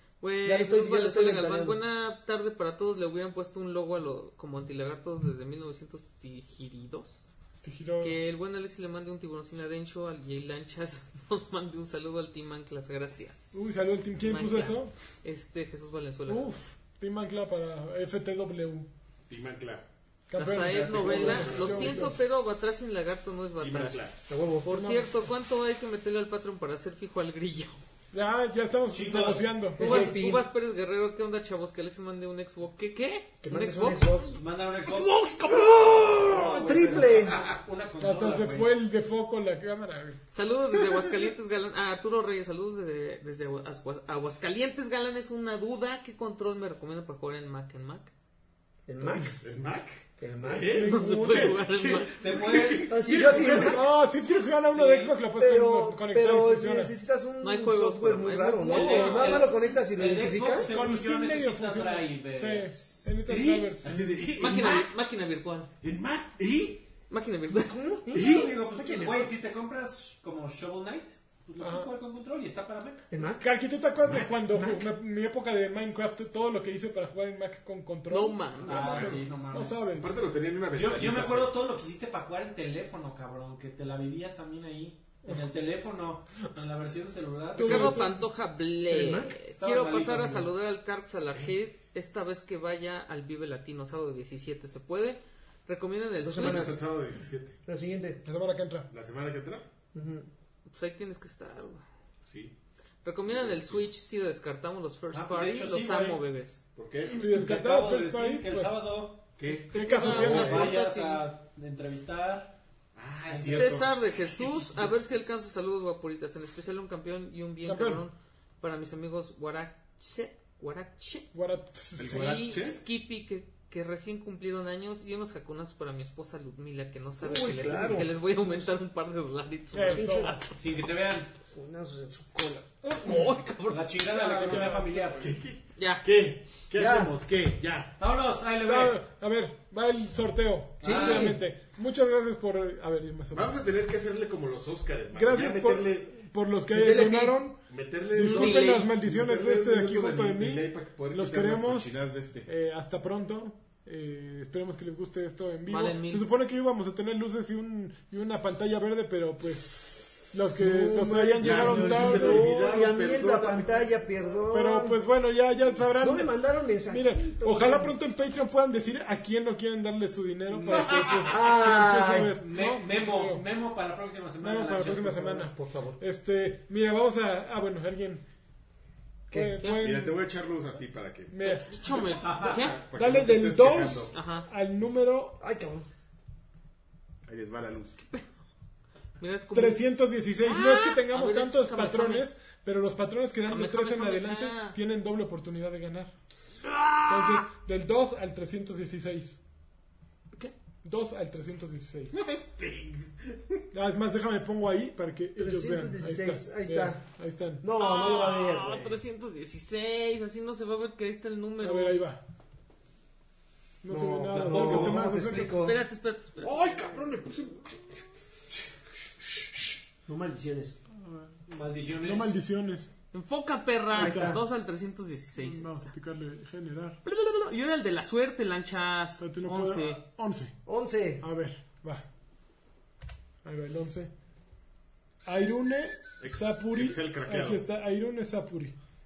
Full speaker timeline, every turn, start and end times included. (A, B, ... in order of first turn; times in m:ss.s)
0:00.2-0:07.2 A
0:00.4-0:01.8 B
0:07.6-0:08.2 C
0:08.0-0:13.6 A
0:13.5-0:14.9 C
0:14.2-0:16.6 A
0:16.3-0:18.9 C
0:19.3-0:19.8 D
0:20.3-0:22.2 C
0:20.4-0:24.1 A
0:20.7-0:22.0 E
0:21.0-0:21.9 D
0:23.6-0:24.2 D
0:24.3-0:24.7 B
0:24.6-0:27.8 A
0:24.7-0:25.1 C
0:28.1-0:30.2 C
0:28.9-0:29.5 E
0:29.8-0:30.4 B
0:29.8-0:34.3 A
0:33.4-0:34.4 B
0:34.4-0:38.7 E
0:34.8-0:36.5 A
0:35.5-0:37.4 B
0:38.0-0:40.2 C
0:40.3-0:48.1 A
0:48.9-0:49.4 B
0:49.4-0:53.8 D
0:50.2-0:51.4 B
0:50.7-0:52.2 A
0:50.8-0:51.5 C
0:52.2-0:53.4 E
0:52.9-0:53.9 B
0:53.2-0:56.9 C
0:54.7-0:55.2 E
0:55.3-1:00.7 B
0:57.4-0:59.6 A
0:58.6-1:02.9 E
1:00.6-1:04.1 C
1:03.3-1:04.9 D
1:03.8-1:04.1 E
1:04.4-1:05.7 A
1:05.8-1:06.8 D
1:07.1-1:07.8 A
1:07.7-1:09.3 B
1:08.1-1:08.6 D
1:08.1-1:13.1 E
1:11.6-1:11.9 C
1:13.1-1:13.5 B
1:13.4-1:20.2 C
1:14.5-1:14.8 B
1:18.1-1:19.2 A
1:18.6-1:19.8 E
1:18.7-1:19.2 D
1:20.0-1:21.6 D
1:20.7-1:28.0 E
1:27.6-1:28.3 C
1:27.6-1:36.7 A
1:28.9-1:29.4 B
1:29.6-1:30.5 E
1:36.2-1:36.8 B
1:36.4-1:37.6 D
1:37.6-1:38.2 B
1:38.2-1:38.9 C
1:38.9-1:39.6 D
1:39.9-1:40.3 B
1:40.7-1:41.8 A
1:42.2-1:42.5 D
1:43.0-1:46.6 A
1:43.3-1:43.9 D
1:45.1-1:46.2 E
1:46.8-1:47.2 D
1:47.2-1:48.8 C
1:47.2-1:49.2 E
1:49.4-1:50.7 D
1:49.5-1:51.2 A
1:49.6-1:50.7 C
1:50.0-1:52.5 E
1:53.0-1:54.1 D
1:53.3-1:53.7 E
1:53.5-2:01.3 A
1:57.6-1:58.0 C
2:01.3-2:02.3 C
2:02.0-2:02.8 D
2:02.0-2:10.6 A
2:07.2-2:08.2 B
2:09.7-2:10.4 C
2:10.6-2:11.3 E
2:11.5-2:12.7 B
2:12.8-2:14.7 A
2:13.7-2:15.4 E
2:14.1-2:15.1 C
2:15.2-2:17.9 D
2:15.8-2:16.0 A
2:16.8-2:17.1 B
2:18.0-2:19.0 E
2:18.6-2:23.6 C
2:20.8-2:21.3 E
2:20.8-2:21.4 B
2:23.3-2:26.1 D
2:25.1-2:27.6 C
2:26.7-2:27.4 B
2:27.7-2:32.5 D
2:28.1-2:31.9 C
2:28.2-2:28.9 A
2:32.4-2:42.6 C
2:35.7-2:36.2 A
2:40.6-2:45.0 B
2:41.4-2:43.9 D
2:44.5-2:53.4 C
2:46.0-2:47.9 B
2:50.5-2:52.4 B
2:50.7-2:51.1 D
2:52.4-2:55.0 E
2:54.4-2:58.2 C
2:54.8-2:56.0 B
2:59.3-3:00.2 C
2:59.3-2:59.6 B
2:59.6-3:00.0 A
2:59.8-3:01.6 D
3:01.3-3:01.9 C
3:01.4-3:02.8 A
3:02.2-3:02.7 E
3:02.4-3:04.1 D
3:02.9-3:05.4 C
3:04.1-3:04.5 A
3:05.4-3:05.9 B
3:07.2-3:08.0 D
3:09.2-3:09.8 A
3:09.5-3:16.1 C
3:10.4-3:12.3 A
3:13.4-3:14.8 A
3:16.6-3:17.5 A
3:17.1-3:19.4 C
3:20.8-3:22.2 C
3:22.1-3:23.6 D
3:23.7-3:27.6 C
3:25.4-3:27.0 B
3:27.6-3:29.0 B
3:27.8-3:32.0 A
3:31.6-3:32.2 C
3:33.8-3:35.6 C
3:33.9-3:35.8 B
3:34.5-3:34.9 D
3:35.2-3:36.8 A
3:36.4-3:38.0 D
3:40.1-3:40.8 B
3:41.0-3:41.3 C
3:41.5-3:42.3 E
3:42.0-3:42.9 C
3:43.1-3:45.7 A
3:43.9-3:44.4 C
3:44.0-3:44.4 B
3:45.4-3:47.0 C
3:47.0-3:50.0 A
3:49.2-3:50.6 C
3:50.6-3:51.2 B
3:51.2-3:52.0 C
3:53.4-3:54.1 C
3:55.2-3:58.8 C
3:56.2-3:57.6 D